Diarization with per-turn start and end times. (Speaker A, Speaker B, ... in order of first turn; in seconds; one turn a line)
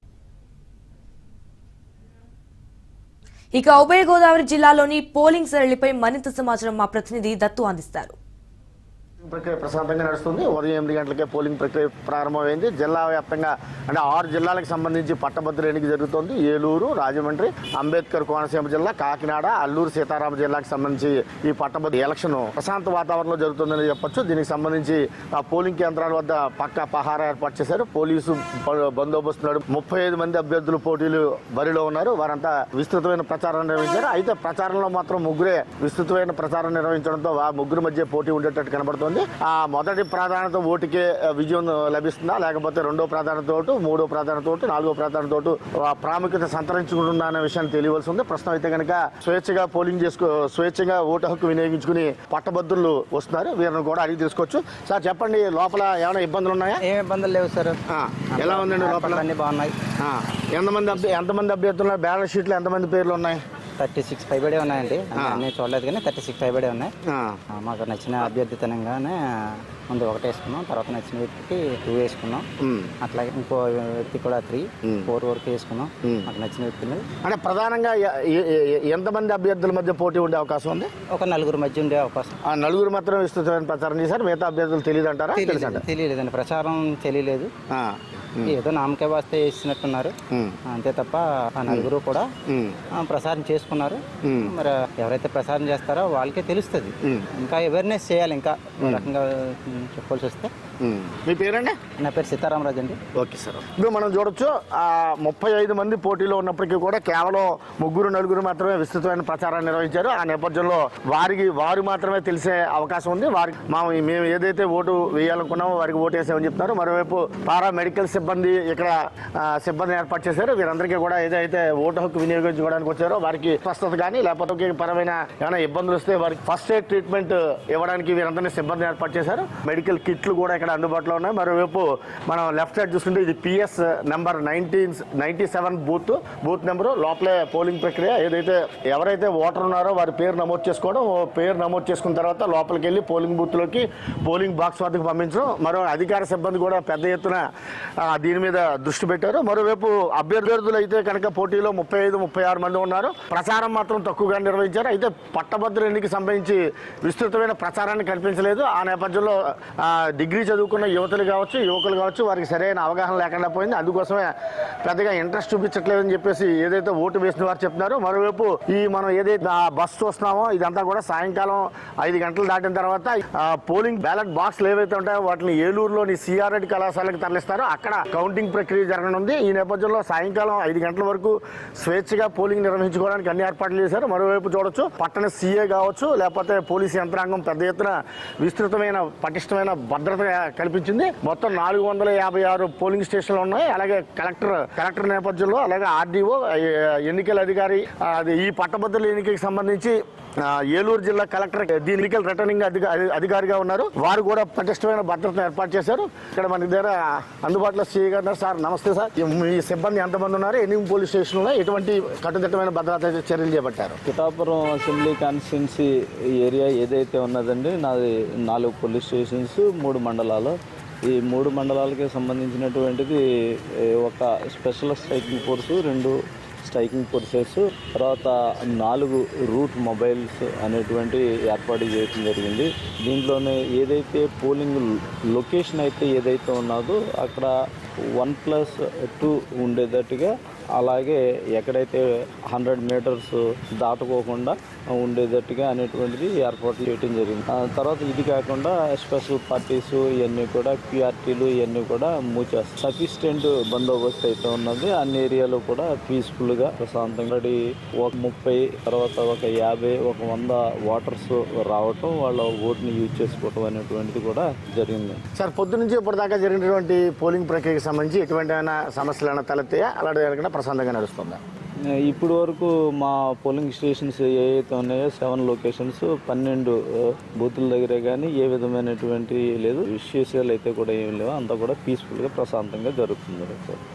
Speaker A: 3.5-8.2
Speaker B: 9.2-56.8
Speaker C: 56.8-57.8
Speaker B: 57.9-59.2
Speaker C: 58.3-59.7
Speaker B: 60.0-63.4
Speaker C: 63.8-66.9
Speaker B: 65.2-65.4
Speaker B: 67.1-67.4
Speaker C: 67.5-72.5
Speaker B: 72.6-72.9
Speaker C: 73.0-77.0
Speaker B: 74.8-75.1
Speaker B: 76.0-76.3
Speaker B: 77.2-80.9
Speaker C: 81.1-82.3
Speaker B: 82.4-85.8
Speaker C: 85.3-87.5
Speaker B: 87.7-88.5
Speaker C: 88.5-90.2
Speaker B: 90.3-90.6
Speaker C: 90.7-92.3
Speaker B: 92.5-92.8
Speaker C: 92.9-100.5
Speaker B: 94.2-94.5
Speaker B: 98.8-99.1
Speaker B: 100.8-101.8
Speaker C: 102.0-103.0
Speaker B: 103.1-147.4
Speaker B: 148.0-164.3
Speaker B: 164.8-214.0
Speaker D: 214.1-215.8
Speaker D: 216.4-220.5
Speaker D: 221.1-223.2
Speaker D: 224.0-237.5
Speaker D: 238.2-265.2
Speaker B: 265.3-271.4
Speaker D: 272.0-283.8